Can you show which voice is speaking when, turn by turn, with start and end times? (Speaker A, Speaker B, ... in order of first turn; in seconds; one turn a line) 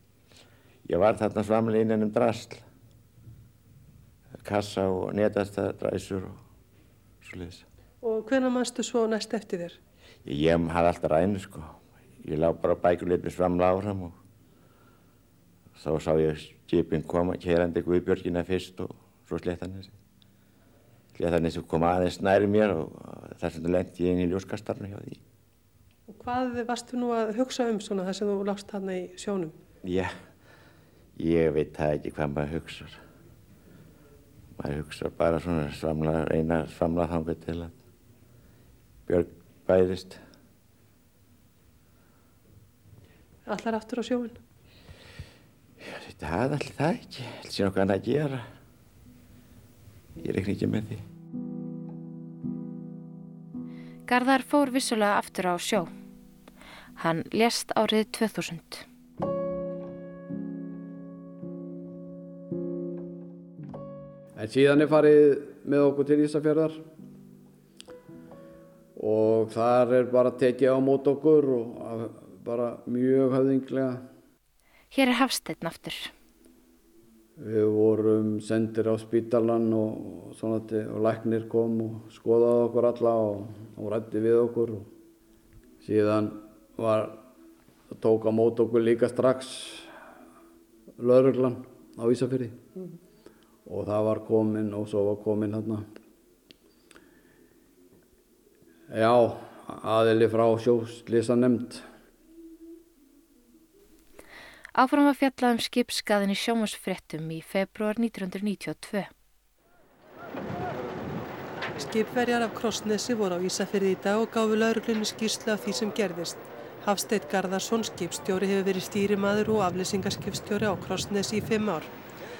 Speaker A: 0.8-2.6
Speaker A: 4.4-6.4
Speaker A: 7.2-7.7
Speaker B: 8.0-9.8
Speaker A: 10.2-14.2
Speaker A: 15.8-19.9
Speaker A: 21.1-25.2
Speaker B: 26.1-29.5
Speaker A: 29.8-30.1
Speaker A: 31.1-33.0
Speaker A: 34.5-37.8
Speaker A: 39.1-40.2
Speaker B: 43.5-44.4
Speaker A: 45.8-48.4
Speaker A: 50.2-51.0
Speaker C: 54.1-55.9
Speaker C: 57.0-58.8
Speaker D: 64.3-66.8
Speaker D: 69.0-74.0
Speaker C: 74.9-76.1
Speaker D: 77.4-84.9
Speaker D: 85.8-87.2
Speaker D: 87.9-89.9
Speaker D: 91.0-92.6
Speaker D: 93.7-95.8
Speaker D: 98.9-101.8
Speaker C: 104.8-109.1
Speaker B: 111.7-121.9